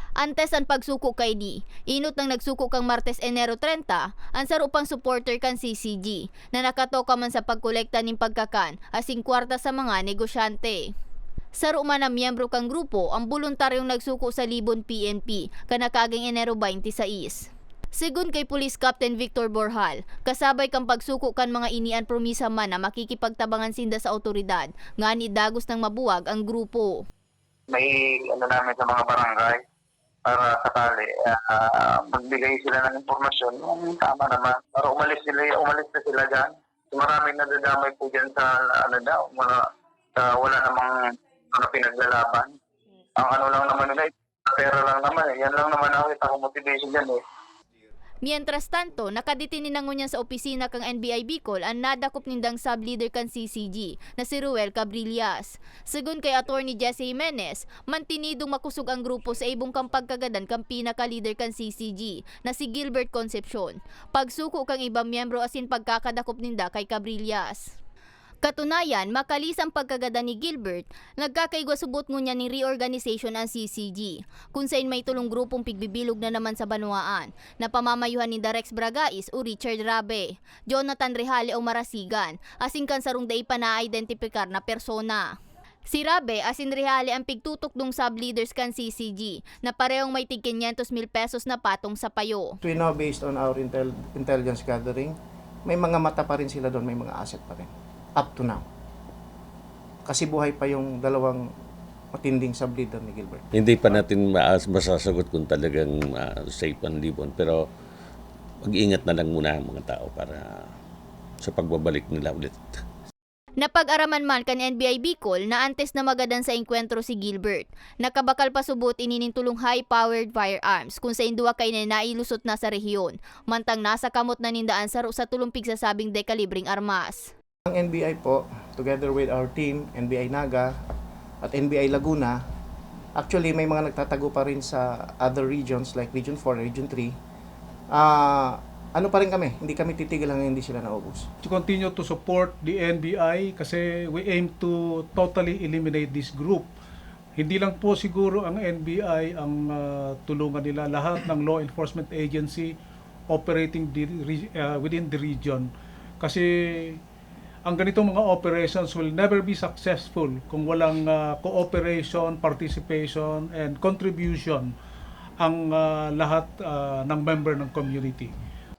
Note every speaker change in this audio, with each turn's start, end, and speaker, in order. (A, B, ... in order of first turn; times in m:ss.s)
0:00.2-0:10.9 A
0:11.6-0:27.0 A
0:27.7-0:29.6 B
0:30.2-0:39.6 B
0:40.2-0:40.9 B
0:41.5-0:42.5 B
0:43.2-0:47.2 B
0:48.2-1:07.7 A
1:08.4-1:25.3 A
1:25.9-1:32.6 A
1:32.6-1:35.2 C
1:35.7-1:38.6 C
1:40.1-1:41.5 C
1:42.2-1:43.5 C
1:43.6-1:47.6 D
1:48.6-1:50.6 D
1:51.4-1:52.8 D
1:53.6-2:07.3 A
2:07.7-2:10.8 C
2:11.4-2:12.4 C
2:13.2-2:17.1 C
2:17.9-2:21.3 C
2:21.4-2:26.7 E
2:27.4-2:32.8 E
2:33.3-2:35.7 E
2:36.2-2:37.0 E
2:37.6-2:44.7 E
2:45.4-2:48.3 E